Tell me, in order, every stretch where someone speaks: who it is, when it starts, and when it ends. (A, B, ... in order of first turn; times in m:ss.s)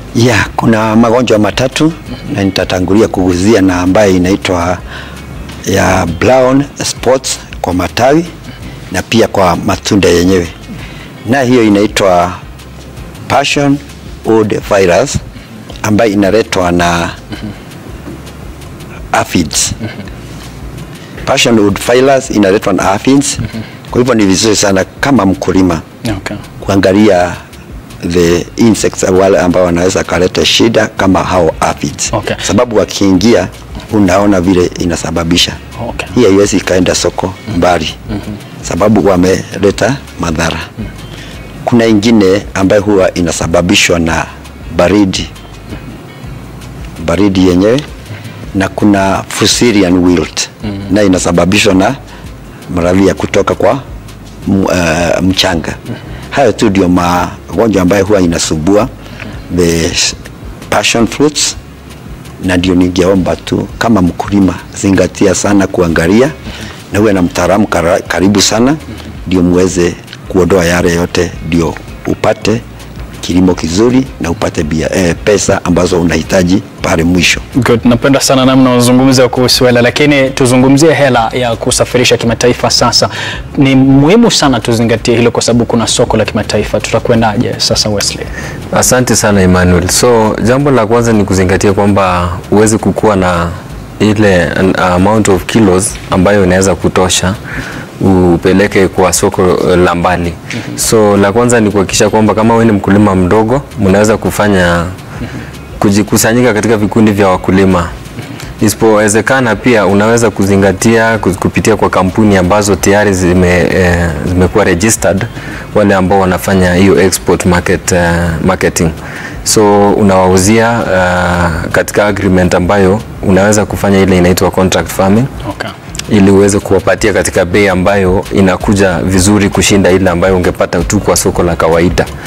0:00.2-0:04.8 A
0:05.7-0:08.3 A
0:08.9-0:10.5 A
0:11.2-0:12.4 A
0:13.3-0:15.2 A
0:15.8-0:17.2 A
0:19.1-0:19.8 A
0:21.2-0:25.8 A
0:26.0-0:26.4 B
0:26.6-0:27.4 A
0:28.0-0:35.6 A
0:32.1-0:32.4 B
0:35.8-0:36.1 B
0:36.1-0:38.0 A
0:38.6-0:40.6 A
0:41.6-0:45.3 A
0:47.0-0:47.8 A
0:48.5-0:52.0 A
0:52.7-0:53.8 A
0:54.4-0:55.8 A
0:56.3-0:58.9 A
0:59.5-1:00.1 A
1:00.7-1:01.6 A
1:02.4-1:06.3 A
1:06.9-1:12.6 A
1:13.2-1:17.4 A
1:17.6-1:28.3 B
1:28.7-1:37.4 C
1:38.0-1:44.9 C
1:45.8-1:47.9 C
1:48.6-1:58.9 C
1:59.4-2:05.3 C
2:05.4-2:05.7 B
2:06.1-2:12.1 C